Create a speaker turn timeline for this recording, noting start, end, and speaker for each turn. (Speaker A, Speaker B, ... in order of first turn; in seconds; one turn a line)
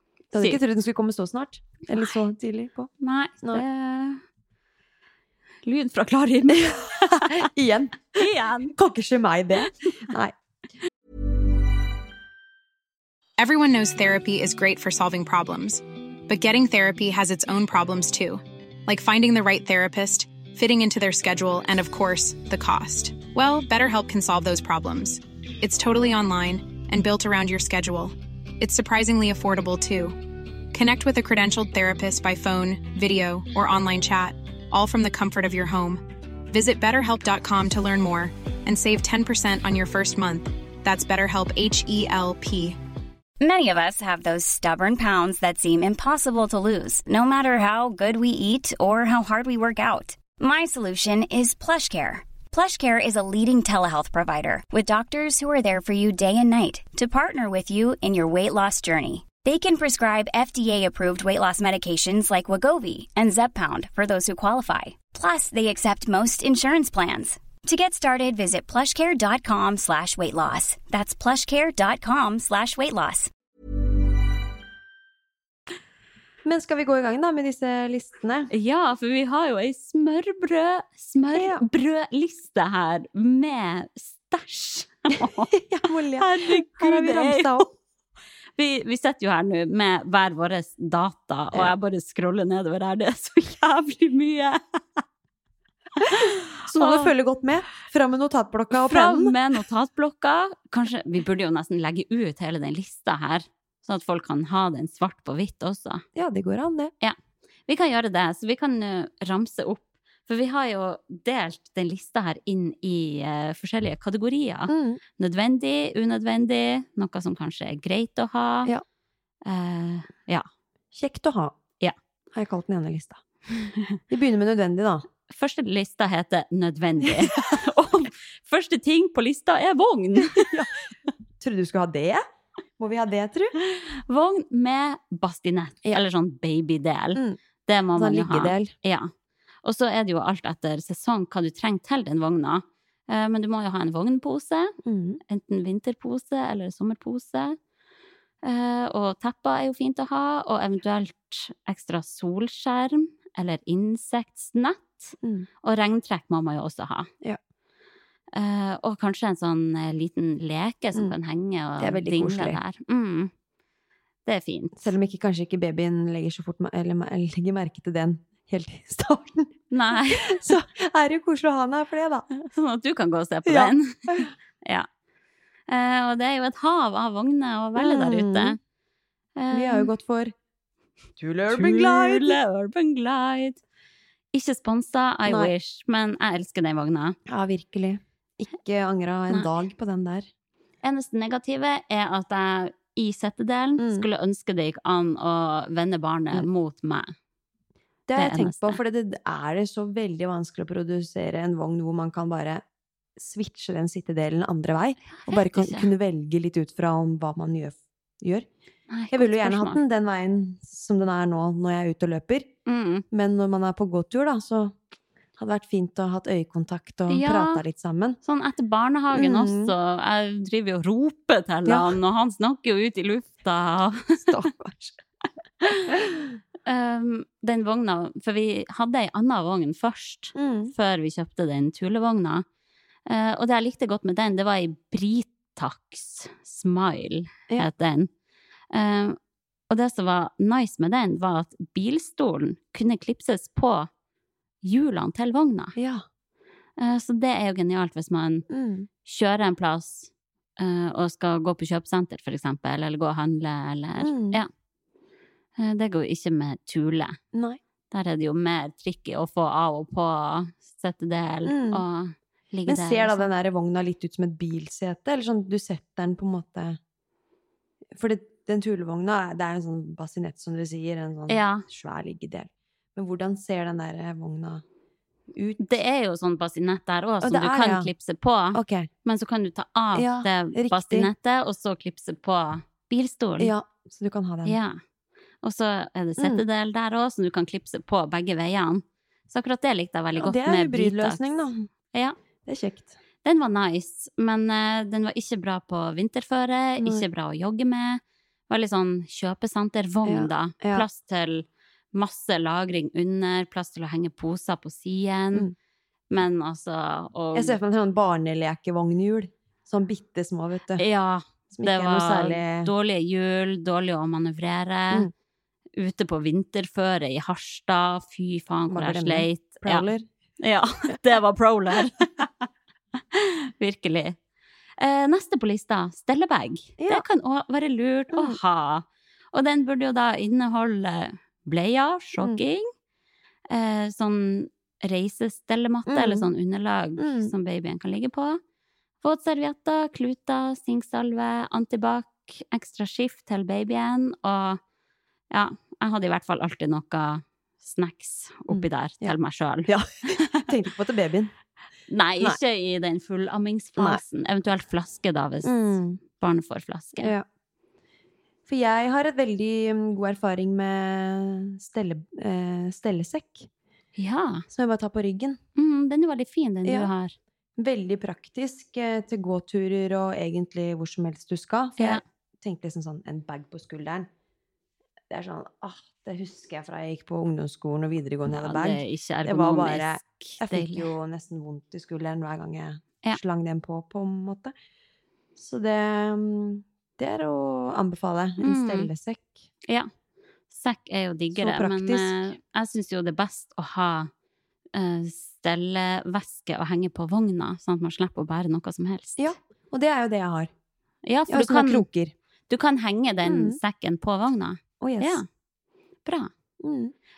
Speaker A: 0.3-0.6
Speaker B: 0.3-2.9
Speaker A: 1.9-2.2
Speaker A: 3.0-4.2
Speaker A: 5.6-7.5
Speaker B: 6.5-10.3
Speaker A: 8.1-8.8
Speaker C: 13.4-30.2
Speaker C: 30.7-42.8
Speaker D: 43.4-73.3
Speaker B: 76.4-78.5
Speaker A: 78.5-85.5
Speaker B: 81.3-81.6
Speaker B: 85.5-87.7
Speaker A: 86.2-87.7
Speaker A: 88.6-95.0
Speaker A: 96.0-97.1
Speaker B: 96.7-99.3
Speaker A: 98.7-106.0
Speaker B: 106.2-106.9
Speaker A: 107.7-118.7
Speaker B: 114.7-115.0
Speaker A: 119.4-120.4
Speaker B: 120.9-121.6
Speaker B: 122.3-123.2
Speaker B: 124.1-125.0
Speaker A: 125.3-130.6
Speaker B: 130.2-130.7
Speaker B: 131.4-132.2
Speaker B: 132.8-133.5
Speaker A: 133.6-139.1
Speaker B: 137.9-138.7
Speaker A: 139.6-144.7
Speaker B: 144.8-145.2
Speaker A: 145.3-147.6
Speaker A: 148.4-157.1
Speaker A: 158.3-163.3
Speaker B: 161.8-162.6
Speaker A: 164.3-164.9
Speaker B: 164.8-172.3
Speaker A: 169.7-170.5
Speaker A: 172.3-174.9
Speaker B: 173.4-174.3
Speaker A: 175.7-178.6
Speaker B: 177.8-178.6
Speaker A: 179.3-179.9
Speaker B: 179.5-180.3
Speaker B: 181.2-182.4
Speaker A: 181.5-183.6
Speaker A: 184.3-187.2
Speaker B: 185.2-185.5
Speaker B: 187.3-190.3
Speaker A: 190.8-197.1
Speaker B: 193.8-194.1
Speaker B: 198.1-202.6
Speaker A: 198.1-198.8
Speaker B: 203.2-208.5
Speaker A: 205.1-205.9
Speaker A: 208.9-209.8
Speaker B: 209.1-212.5
Speaker A: 212.7-213.0
Speaker B: 213.1-214.7
Speaker B: 215.4-218.2
Speaker A: 217.1-217.6
Speaker A: 218.2-224.3
Speaker B: 219.1-219.7
Speaker B: 221.7-221.9
Speaker B: 224.3-225.0
Speaker A: 225.7-225.9
Speaker B: 225.8-226.3
Speaker A: 226.7-232.4
Speaker B: 230.3-230.7
Speaker A: 233.1-238.1
Speaker A: 238.7-239.2
Speaker A: 239.7-243.9
Speaker A: 244.6-245.7
Speaker B: 245.8-246.0
Speaker A: 246.8-248.4
Speaker B: 248.5-248.9
Speaker A: 249.1-254.5
Speaker B: 254.0-254.4
Speaker A: 255.6-257.2
Speaker B: 257.3-257.6
Speaker A: 257.9-263.3
Speaker B: 261.4-261.8
Speaker B: 262.7-266.8
Speaker B: 267.9-274.6
Speaker A: 271.3-271.6
Speaker B: 275.3-275.7
Speaker A: 275.6-283.5
Speaker B: 277.2-277.9
Speaker B: 278.5-278.9
Speaker B: 279.9-281.1
Speaker B: 283.4-284.6
Speaker A: 284.4-284.8
Speaker A: 285.4-291.2
Speaker B: 290.2-291.7
Speaker B: 292.4-292.9
Speaker A: 293.2-305.5
Speaker B: 296.8-297.0
Speaker B: 300.0-300.8
Speaker A: 306.1-307.6
Speaker B: 307.3-310.8
Speaker A: 310.8-315.1
Speaker B: 311.6-312.7
Speaker A: 315.8-319.9
Speaker B: 318.7-320.0
Speaker A: 320.4-322.3
Speaker A: 323.1-324.2
Speaker A: 324.8-332.6
Speaker B: 326.8-327.0
Speaker B: 328.1-328.4
Speaker A: 333.5-338.4
Speaker B: 335.9-336.3
Speaker B: 337.0-337.3
Speaker A: 339.0-344.6
Speaker A: 345.3-350.5
Speaker B: 348.5-349.1
Speaker B: 349.7-351.3
Speaker A: 351.9-357.1
Speaker B: 353.8-354.0
Speaker B: 355.4-356.0
Speaker B: 357.0-357.2
Speaker B: 358.5-363.5
Speaker A: 364.0-364.4
Speaker B: 364.5-365.4
Speaker A: 365.6-367.1
Speaker B: 366.6-366.9
Speaker B: 367.6-374.1
Speaker A: 371.8-372.0
Speaker B: 375.1-384.5
Speaker A: 378.3-380.9
Speaker B: 385.4-389.4
Speaker A: 388.4-388.9
Speaker A: 390.5-394.1
Speaker B: 391.3-392.2
Speaker A: 394.7-399.3
Speaker B: 399.2-400.5
Speaker A: 401.1-401.9
Speaker B: 401.3-402.1
Speaker A: 402.5-405.2
Speaker B: 403.2-403.6
Speaker B: 404.8-405.2
Speaker A: 406.0-406.3
Speaker B: 406.6-406.9